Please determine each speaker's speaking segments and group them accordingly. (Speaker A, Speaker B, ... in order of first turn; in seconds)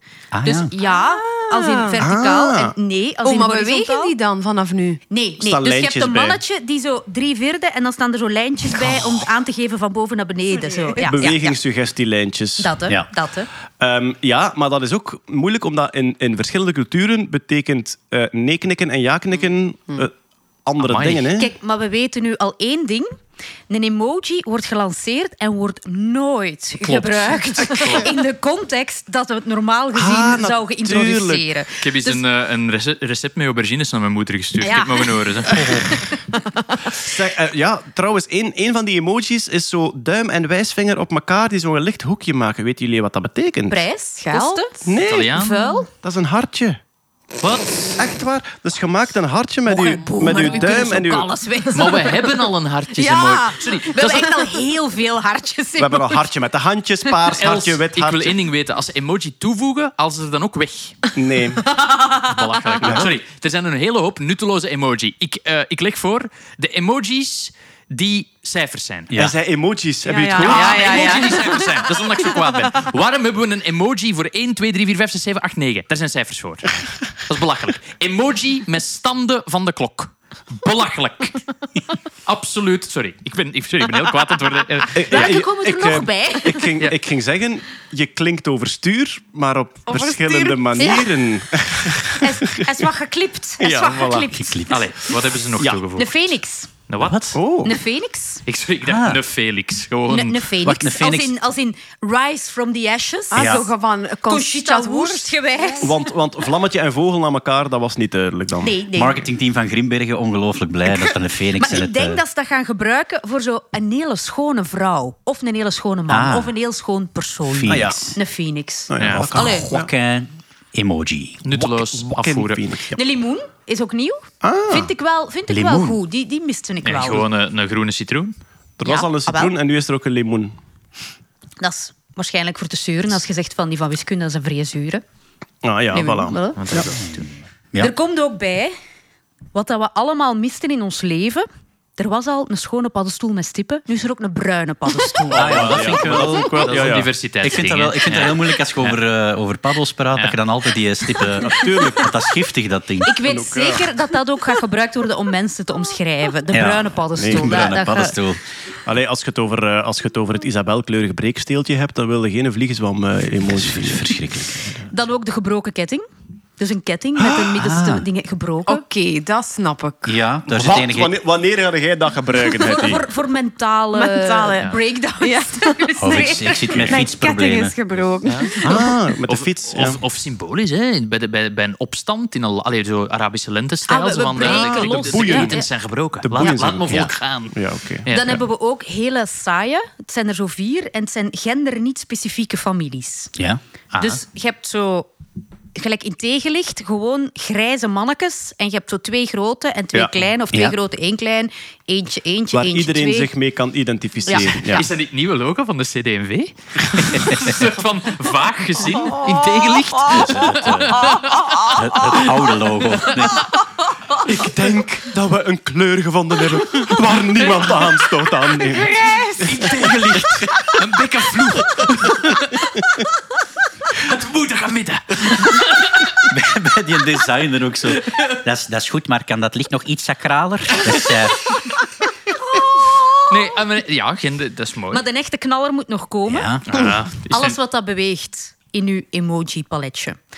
Speaker A: 0.3-0.7, 69.1-69.3, 94.4-94.8, 97.0-97.3, 98.8-99.2, 100.6-101.3, 103.3-103.6, 108.9-112.2, 116.1-116.5, 117.5-118.1, 119.1-121.4, 125.5-126.0, 145.3-153.1, 156.5-158.4, 163.4-164.7, 167.6-168.0, 170.0-171.2, 176.0-177.7, 210.0-213.5, 226.3-231.3, 236.3-236.6
Speaker B: 0.4-4.1, 5.1-11.6, 12.6-13.5, 21.3-23.1, 23.7-32.2, 34.6-36.2, 43.7-44.7, 45.3-45.9, 49.7-56.2, 61.7-62.3, 70.3-71.8, 85.1-86.7, 89.9-91.2, 92.2-94.7, 95.9-96.7, 97.6-98.4, 100.1-103.7, 104.3-106.0, 108.6-109.2, 111.5-119.7, 122.9-127.3, 128.8-129.5, 131.6-135.0, 135.9-136.9, 137.8-138.7, 139.5-145.9, 153.0-158.2, 164.9-166.1, 166.6-168.8, 172.4-176.8, 183.9-185.7, 188.1-193.3, 194.0-195.1, 195.7-203.3, 204.2-204.8, 232.5-233.4, 234.9-236.6, 237.3-240.2
Speaker C: 0.8-2.0, 3.2-5.0, 10.8-11.3, 44.2-44.9, 70.0-71.2, 90.3-90.8, 103.3-105.9, 168.7-170.2, 173.9-178.7
Speaker D: 2.0-2.7, 5.4-6.4, 11.1-12.8, 13.8-20.1, 20.6-21.5, 29.9-31.4, 36.9-43.9, 44.8-45.4, 46.0-46.8, 48.0-51.3, 55.8-58.4, 61.1-61.6, 62.8-63.1, 69.1-71.2, 84.9-92.9, 93.6-94.4, 97.3-97.7, 105.8-108.8, 117.7-118.1, 118.9-119.9, 121.5-123.0, 124.4-124.9, 128.8-130.5, 135.6-136.9, 145.2-147.1, 151.4-152.2, 153.2-153.9, 157.2-157.8, 158.8-164.6, 167.2-167.5, 170.5-173.0, 178.6-180.0, 184.4-185.6, 186.2-188.1, 199.9-200.3, 202.5-204.8, 214.2-218.9, 219.4-220.7, 221.8-222.3
Speaker E: 20.8-21.3, 26.8-28.1, 31.8-35.6, 45.0-45.8, 47.4-47.7, 51.7-54.3, 57.3-61.0, 62.3-69.1, 70.5-81.4, 82.2-85.4, 94.7-96.1, 96.9-97.3, 98.5-100.5, 119.0-119.2, 121.4-122.6, 126.8-128.3, 136.6-137.4, 145.7-149.0, 178.2-188.4, 193.9-194.2, 204.7-211.4, 217.5-217.9, 218.9-222.5, 224.0-226.2, 228.0-228.4, 233.3-235.0, 236.7-237.6